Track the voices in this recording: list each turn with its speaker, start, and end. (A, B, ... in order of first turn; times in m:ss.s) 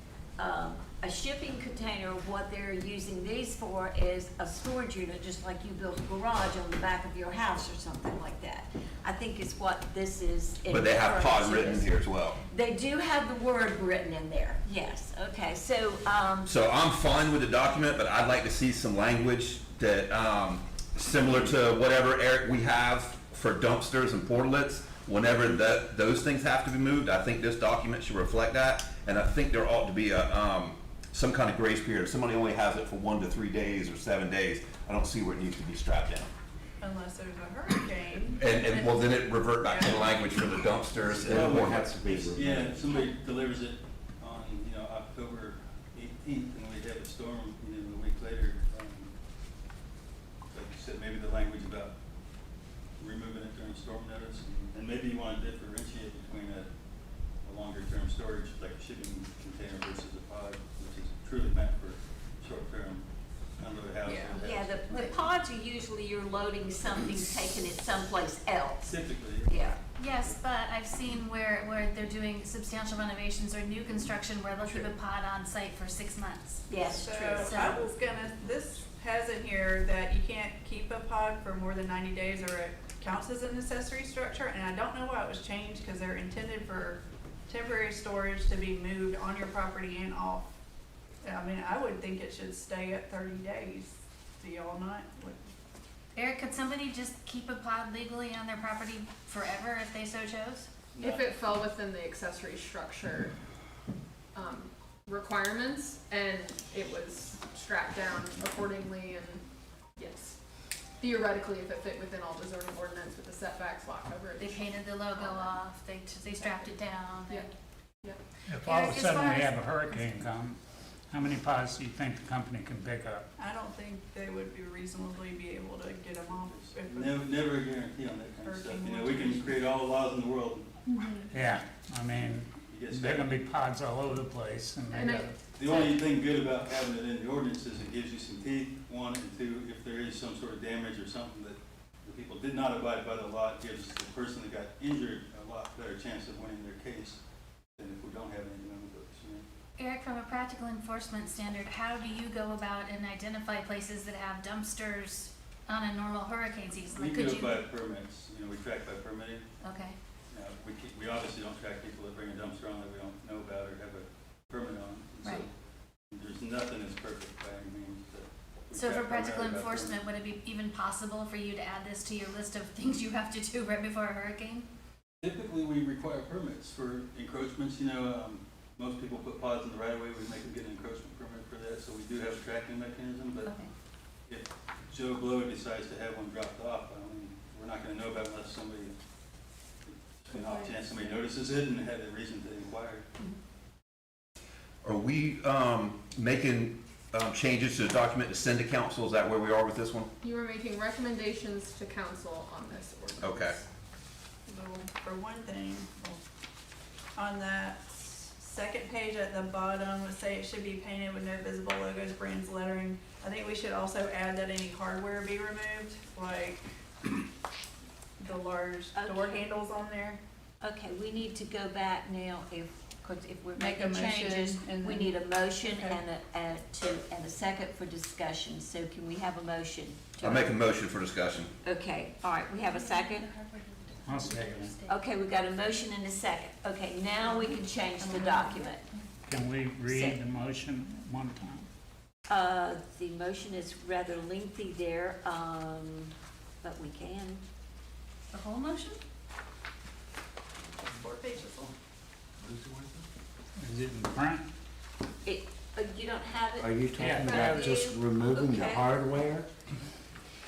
0:00.4-0:11.9 A
0:10.7-0:12.4 B
0:12.5-0:16.5 A
0:16.5-0:36.3 B
0:36.8-0:39.0 C
0:38.4-0:41.8 B
0:39.6-0:40.2 C
0:41.2-0:42.9 D
0:41.3-0:49.1 E
0:50.5-0:51.9 E
0:53.0-0:56.7 E
0:57.4-1:03.0 E
1:03.6-1:05.2 E
1:04.1-1:04.4 C
1:04.2-1:08.9 A
1:08.8-1:10.4 E
1:09.5-1:09.8 A
1:10.0-1:16.7 F
1:16.7-1:17.8 A
1:16.8-1:30.5 C
1:17.4-1:17.8 F
1:31.2-1:35.5 C
1:36.2-1:40.7 F
1:40.9-1:41.2 E
1:41.0-1:43.3 G
1:44.3-1:50.4 G
1:51.0-1:55.6 G
1:54.4-1:57.5 F
1:56.4-1:56.7 G
1:58.5-2:00.6 H
1:58.6-1:59.6 F
2:01.1-2:03.2 H
2:03.4-2:07.6 C
2:06.4-2:10.8 E
2:08.4-2:09.6 C
2:10.9-2:11.3 G
2:11.3-2:15.4 H
2:12.6-2:13.4 E
2:14.9-2:15.4 G
2:15.5-2:27.2 E
2:27.8-2:29.5 E
2:29.8-2:37.6 F
2:36.9-2:39.4 E
2:39.6-2:40.0 F
2:40.3-2:45.5 E
2:46.1-2:50.0 E
2:48.7-2:54.7 F
2:55.2-3:03.5 E
3:03.4-3:03.7 F
3:04.3-3:08.9 E
3:09.9-3:13.0 E
3:14.8-3:20.1 B
3:20.2-3:23.6 G
3:23.2-3:23.6 B
3:24.5-3:26.2 C
3:27.2-3:37.2 C
3:38.2-3:40.2 C
3:38.9-3:39.4 A
3:40.6-3:50.6 A
3:43.6-3:46.0 C
3:50.2-3:51.5 B
3:51.6-3:53.3 A
3:52.6-3:54.9 F
3:54.1-3:54.8 H
3:54.9-3:58.8 A
3:58.0-3:58.7 C
3:59.3-4:01.7 H
3:59.9-4:00.2 A
4:02.3-4:07.4 A
4:08.3-4:09.0 F
4:10.9-4:11.7 C
4:12.4-4:13.0 D
4:13.6-4:14.4 H
4:15.2-4:19.0 A
4:16.6-4:19.5 D
4:17.0-4:17.8 H